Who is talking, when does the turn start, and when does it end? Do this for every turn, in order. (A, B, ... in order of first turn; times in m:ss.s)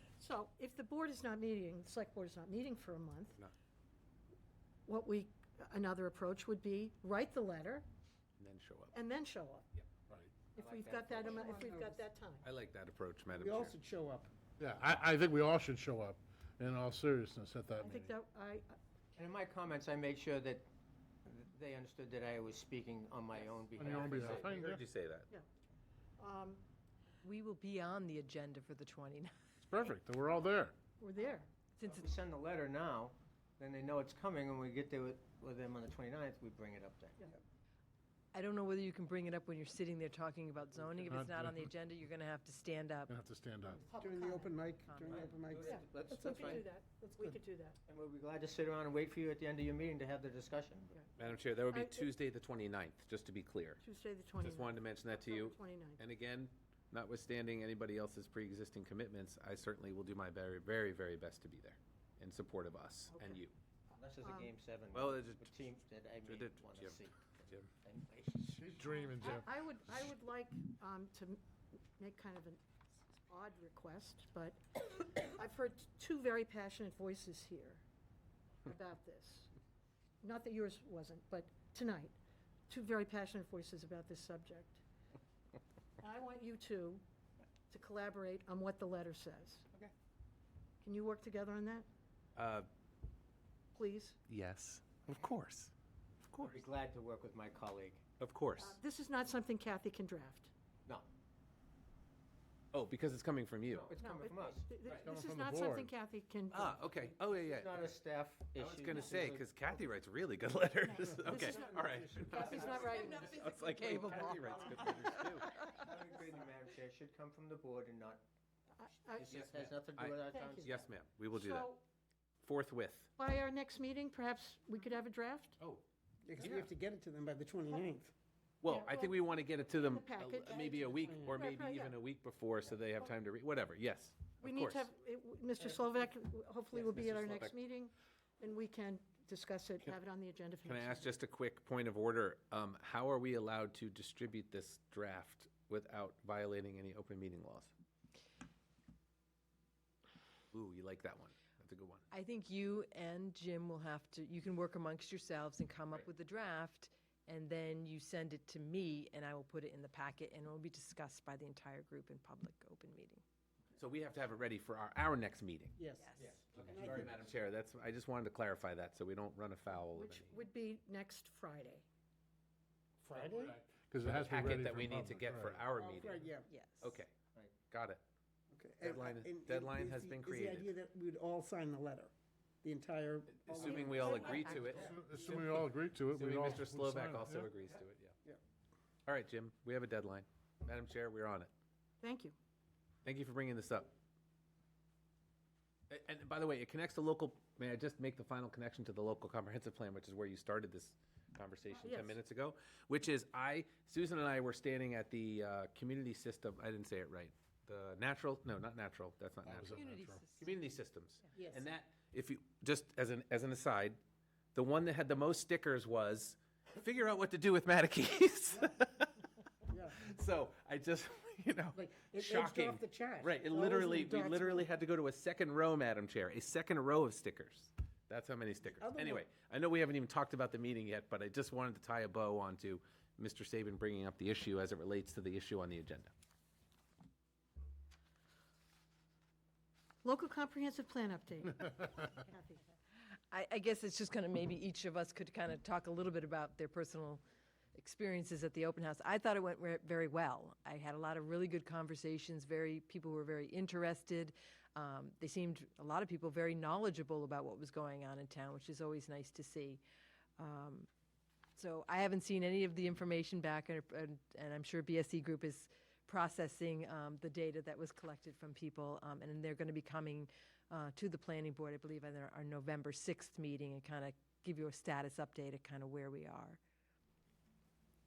0:00.2-0:03.4 A
0:04.9-0:07.8 A
0:08.4-0:09.1 B
0:08.9-0:09.7 A
0:10.1-0:10.4 C
0:10.5-0:11.9 D
0:10.5-0:12.4 A
0:11.6-0:11.9 E
0:12.4-0:13.7 B
0:13.3-0:14.3 E
0:14.6-0:18.2 C
0:17.8-0:18.8 A
0:19.2-0:20.7 D
0:21.2-0:24.6 D
0:23.8-0:24.8 C
0:24.4-0:25.3 B
0:26.2-0:26.6 A
0:27.2-0:29.3 F
0:29.6-0:30.7 C
0:31.0-0:31.5 A
0:31.8-0:32.1 F
0:31.8-0:37.2 D
0:38.3-0:43.2 F
0:40.8-0:41.1 D
0:41.1-0:41.7 C
0:43.1-0:43.9 C
0:43.7-0:44.6 A
0:44.0-0:47.4 E
0:44.9-0:45.2 F
0:45.0-0:46.7 D
0:45.6-0:47.8 A
0:47.9-0:50.9 D
0:50.9-0:52.1 A
0:51.2-0:53.8 B
0:53.8-0:56.0 A
0:54.4-1:03.5 B
1:03.1-1:03.4 A
1:04.0-1:08.9 D
1:04.2-1:04.5 A
1:04.9-1:05.5 B
1:06.2-1:07.7 B
1:08.4-1:09.9 C
1:08.9-1:11.4 A
1:12.0-1:12.6 A
1:13.3-1:17.8 A
1:18.7-1:19.5 A
1:20.2-1:22.2 A
1:22.7-1:24.8 A
1:26.0-1:27.0 A
1:27.7-1:29.7 A
1:30.8-1:31.9 A
1:32.4-1:32.7 B
1:33.7-1:34.2 A
1:34.3-1:35.7 B
1:36.3-1:36.6 B
1:36.4-1:38.0 D
1:38.2-1:38.8 B
1:38.6-1:40.5 A
1:42.7-1:43.9 B
1:43.7-1:44.7 D
1:44.0-1:46.8 A
1:44.9-1:45.2 B
1:45.0-1:45.9 C
1:46.5-1:47.9 B
1:46.9-1:49.9 D
1:48.6-1:52.6 B
1:50.8-1:54.4 A
1:51.2-1:53.5 D
1:52.4-1:56.0 F
1:53.2-1:55.4 B
1:55.7-1:58.2 D
1:58.8-1:59.3 A
1:59.2-2:00.9 D
1:59.2-2:01.7 B
2:00.3-2:00.8 A
2:01.3-2:01.8 A
2:02.4-2:03.1 B
2:03.2-2:05.6 A
2:06.2-2:08.1 E
2:06.4-2:06.7 B
2:08.6-2:14.9 B
2:08.6-2:12.0 A
2:11.1-2:11.3 E
2:14.3-2:21.2 A
2:16.8-2:17.6 B
2:20.6-2:27.7 B
2:30.5-2:32.0 B
2:32.1-2:43.2 F
2:43.8-2:45.7 B
2:45.8-2:47.2 E
2:46.0-2:46.4 F
2:46.2-2:47.0 D
2:46.4-2:50.4 B
2:49.9-2:51.8 A
2:53.0-2:53.6 E
2:53.3-2:55.7 C
2:54.0-2:56.2 B
2:55.7-2:56.5 E
2:56.5-2:57.0 F
2:56.8-2:57.1 B
2:57.7-2:58.0 B
2:58.5-3:05.3 E
2:58.8-3:00.7 B
3:03.5-3:08.1 B
3:03.6-3:04.6 F
3:03.8-3:04.3 A
3:04.3-3:04.9 D
3:04.7-3:07.5 C
3:09.1-3:11.5 B
3:12.0-3:12.4 A
3:13.0-3:13.9 B
3:15.9-3:29.7 B
3:21.7-3:22.2 A
3:29.4-3:30.3 C
3:29.7-3:30.6 F
3:30.4-3:34.0 B
3:31.3-3:31.7 E
3:34.5-3:39.2 B
3:39.7-3:40.0 E
3:40.0-3:56.1 B
3:41.7-3:44.7 E
3:48.6-3:49.3 E
4:00.0-4:02.6 A
4:03.3-4:07.2 F
4:07.7-4:19.8 F
4:20.4-4:20.9 F
4:21.6-4:36.6 F